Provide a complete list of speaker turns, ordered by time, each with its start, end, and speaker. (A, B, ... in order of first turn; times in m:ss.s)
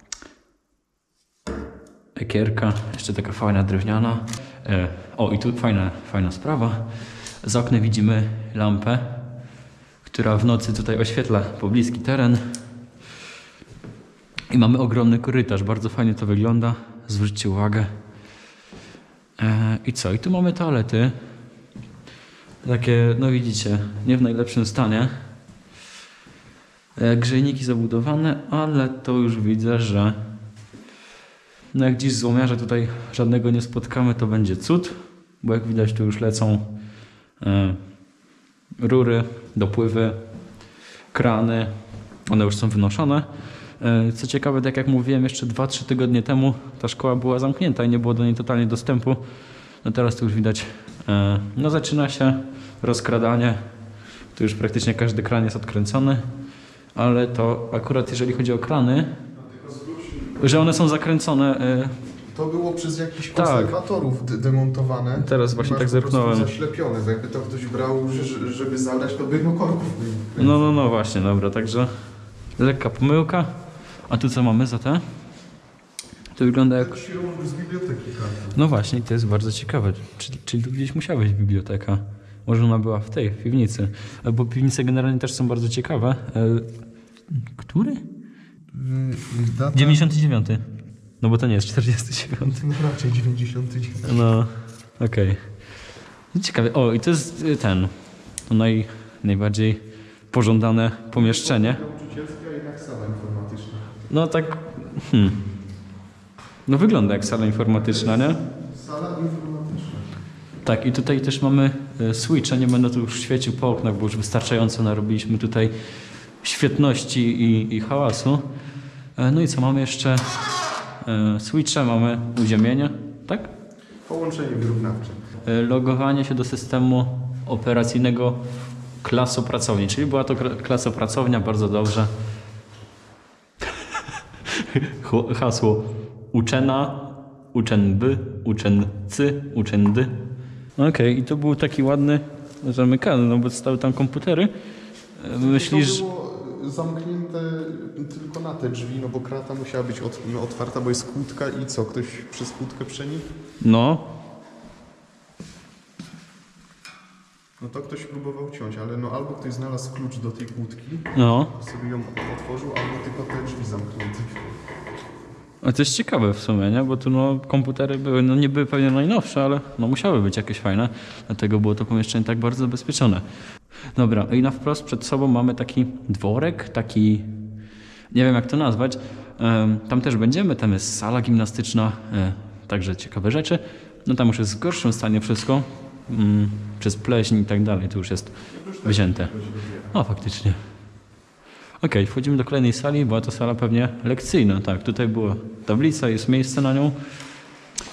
0:02.2-0:06.8 A
0:07.4-0:09.2 A
0:10.0-0:12.4 A
0:14.5-0:17.9 A
0:19.4-0:21.1 A
0:22.6-0:25.1 A
0:27.0-0:30.2 A
0:31.7-0:36.7 A
0:37.4-0:37.8 A
0:38.8-0:40.2 A
0:41.1-0:41.7 A
0:42.3-0:43.3 A
0:43.8-0:49.2 A
0:49.8-0:53.6 A
0:54.3-0:56.2 A
0:56.9-0:59.1 A
0:59.4-1:00.6 B
1:00.4-1:01.9 A
1:02.3-1:10.7 B
1:03.3-1:03.7 A
1:05.2-1:06.5 A
1:10.4-1:11.9 A
1:12.6-1:13.5 A
1:14.1-1:15.0 A
1:16.4-1:17.0 A
1:16.8-1:18.6 B
1:18.5-1:26.7 A
1:27.5-1:28.0 A
1:28.7-1:30.0 B
1:29.7-1:30.6 A
1:31.2-1:32.6 A
1:32.4-1:34.3 B
1:34.1-1:35.4 A
1:36.3-1:37.9 A
1:38.5-1:39.8 A
1:40.3-1:41.8 A
1:41.1-1:43.9 B
1:44.1-1:45.4 A
1:46.7-1:48.4 A
1:47.8-1:48.1 B
1:48.7-1:50.0 B
1:50.6-1:55.7 A
1:56.4-1:58.4 A
1:59.2-2:00.3 A
2:01.0-2:03.5 A
2:04.0-2:05.2 B
2:05.4-2:08.4 A
2:09.0-2:12.1 A
2:14.5-2:20.1 A
2:20.8-2:24.5 A
2:25.2-2:26.0 A
2:25.4-2:33.2 B
2:33.6-2:34.1 A
2:37.6-2:44.4 B
2:41.1-2:41.5 A
2:45.6-2:53.2 A
2:53.9-2:57.3 A
2:58.1-3:09.3 A
3:08.5-3:09.9 B
3:09.9-3:10.6 A
3:11.8-3:17.0 A